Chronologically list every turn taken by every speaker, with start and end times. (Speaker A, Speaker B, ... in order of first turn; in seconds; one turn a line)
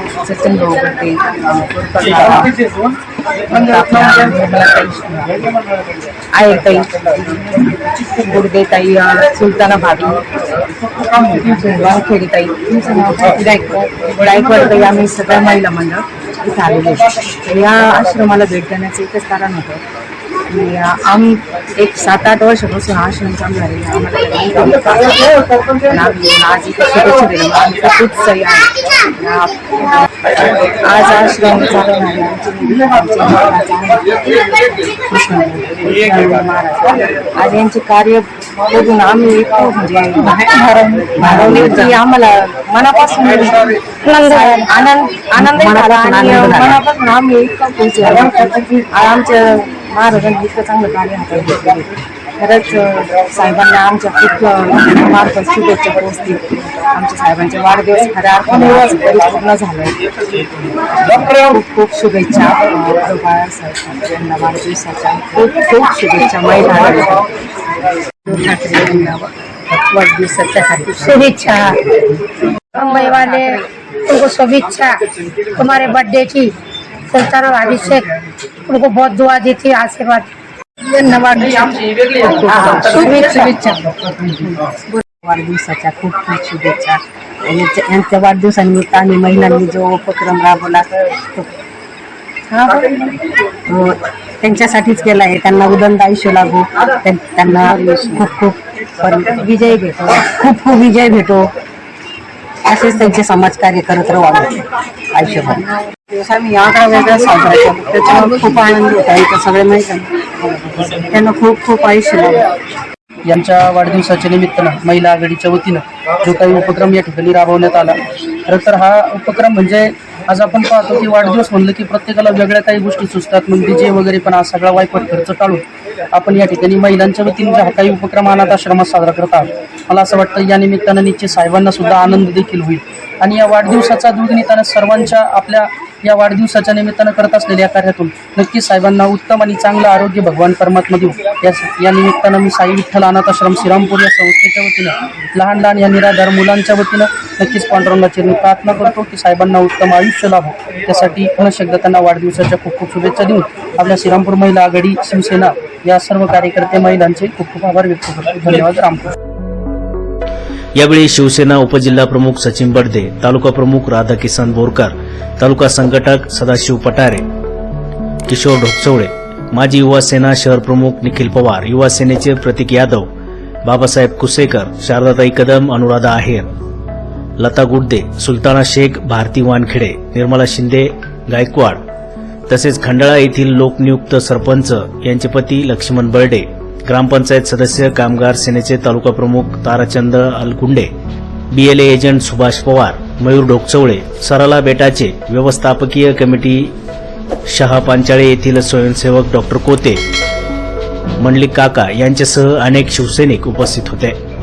Speaker A: 0.2-2.5
Speaker A: 3.5-5.3
Speaker A: 6.3-10.2
Speaker A: 11.1-19.8
Speaker A: 20.5-29.6
Speaker A: 30.8-60.0
Speaker B: 44.1-44.7
Speaker A: 61.2-67.3
Speaker A: 68.3-71.1
Speaker B: 71.0-71.8
Speaker B: 72.8-75.0
Speaker B: 75.5-76.5
Speaker B: 77.1-78.1
Speaker B: 78.7-80.3
Speaker C: 81.4-83.1
Speaker A: 82.5-91.5
Speaker B: 82.9-83.4
Speaker A: 92.5-92.9
Speaker A: 93.7-101.5
Speaker A: 102.7-104.5
Speaker A: 105.2-112.4
Speaker C: 113.3-159.1
Speaker D: 160.8-167.2
Speaker D: 168.3-173.1
Speaker D: 173.7-176.5
Speaker D: 177.4-181.8
Speaker D: 182.5-190.9
Speaker D: 191.5-196.7
Speaker D: 197.5-200.0
Speaker D: 201.2-204.2